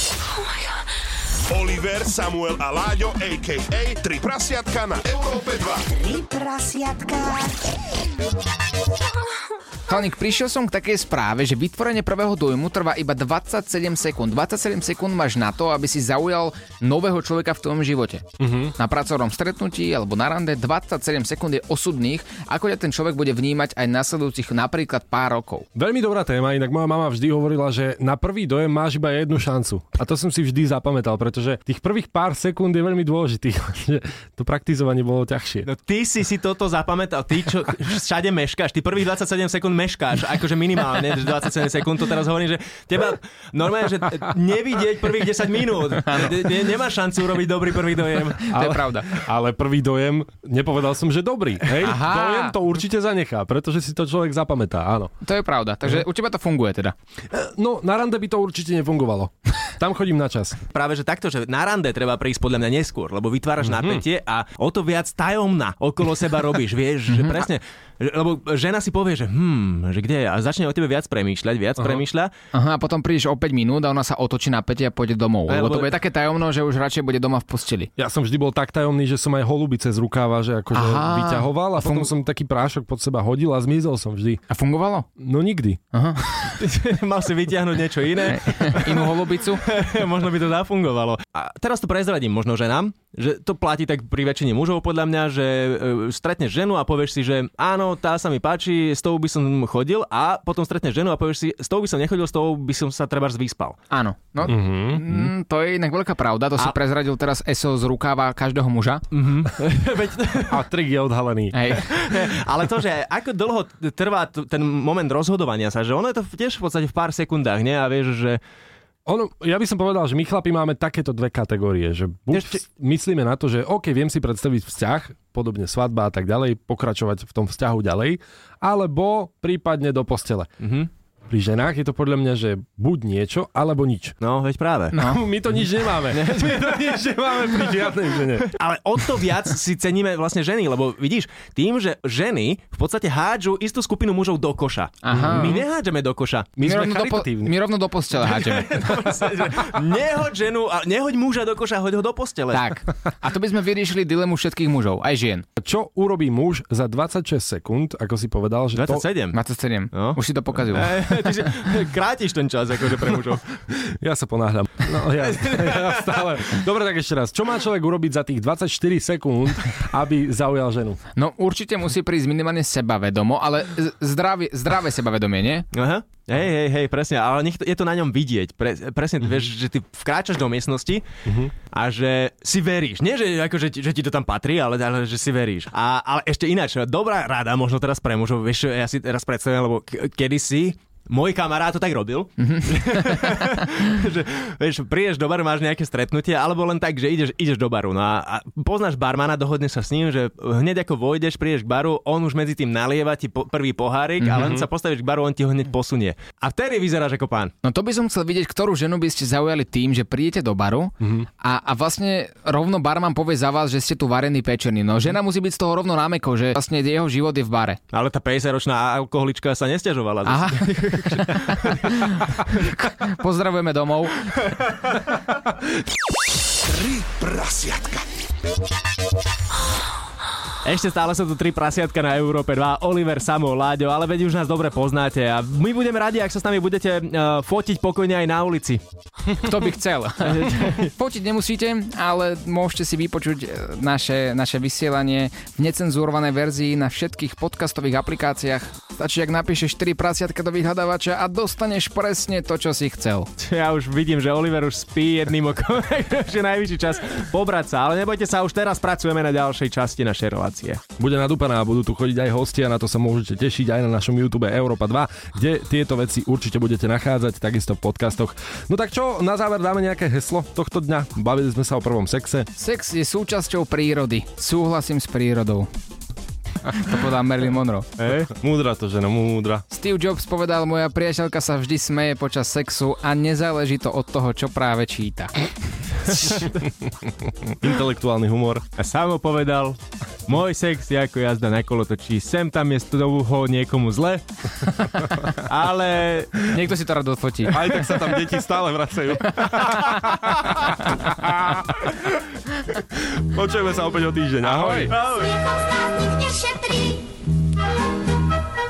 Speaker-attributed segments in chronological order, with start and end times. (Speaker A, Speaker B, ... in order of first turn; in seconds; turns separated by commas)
Speaker A: 1.5-5.8, Speaker B: 5.9-7.6, Speaker C: 9.9-18.2, Speaker D: 18.4-18.7, Speaker C: 18.8-25.7, Speaker D: 25.7-35.7, Speaker E: 35.6-48.5, Speaker C: 48.5-49.1, Speaker D: 48.5-55.1, Speaker C: 51.8-52.5, Speaker C: 55.2-56.9, Speaker D: 57.3-60.6, Speaker E: 60.7-72.3, Speaker D: 63.6-64.0, Speaker C: 67.1-67.4, Speaker C: 72.5-77.9, Speaker E: 75.5-75.9, Speaker D: 78.0-84.4, Speaker C: 80.7-82.1, Speaker C: 84.5-85.1, Speaker D: 85.2-85.8, Speaker C: 85.9-86.6, Speaker E: 86.5-103.8, Speaker C: 88.3-89.6, Speaker C: 103.9-109.0, Speaker D: 104.5-105.0, Speaker E: 109.1-110.6, Speaker D: 110.5-111.7, Speaker C: 111.5-112.3, Speaker E: 111.9-118.4, Speaker D: 119.0-130.5, Speaker E: 122.3-122.6, Speaker E: 130.6-130.9, Speaker D: 131.3-134.1, Speaker E: 134.2-135.0, Speaker C: 134.9-135.2, Speaker D: 135.0-138.5, Speaker E: 136.1-137.1, Speaker E: 138.4-146.5, Speaker C: 145.0-145.6, Speaker D: 145.1-145.6, Speaker D: 146.6-147.5, Speaker C: 146.6-148.9, Speaker E: 148.2-152.7, Speaker C: 152.5-155.4, Speaker D: 155.6-159.0, Speaker E: 158.7-159.4, Speaker C: 159.3-161.4, Speaker E: 159.9-163.4, Speaker D: 163.7-171.0, Speaker E: 165.2-166.2, Speaker C: 171.2-175.7, Speaker E: 175.7-181.1, Speaker D: 181.2-181.5, Speaker E: 181.7-207.5, Speaker C: 192.4-193.0, Speaker C: 204.2-204.6, Speaker D: 204.3-204.7, Speaker C: 207.6-217.8, Speaker D: 211.0-211.3, Speaker E: 217.9-222.7, Speaker C: 220.2-224.3, Speaker A: 226.6-228.1, Speaker E: 230.6-238.8, Speaker C: 239.4-253.3, Speaker E: 240.2-240.9, Speaker E: 253.4-260.8, Speaker D: 261.0-272.5, Speaker C: 272.5-275.7, Speaker C: 276.6-277.9, Speaker E: 278.0-278.3, Speaker D: 278.4-279.6, Speaker C: 279.7-285.3, Speaker E: 286.1-286.6, Speaker D: 287.1-288.6, Speaker E: 288.8-294.2, Speaker E: 295.3-296.5, Speaker C: 296.5-298.2, Speaker D: 297.5-300.0, Speaker C: 299.4-299.9, Speaker D: 303.0-304.9, Speaker C: 304.4-304.9, Speaker E: 304.9-305.4, Speaker B: 305.9-307.0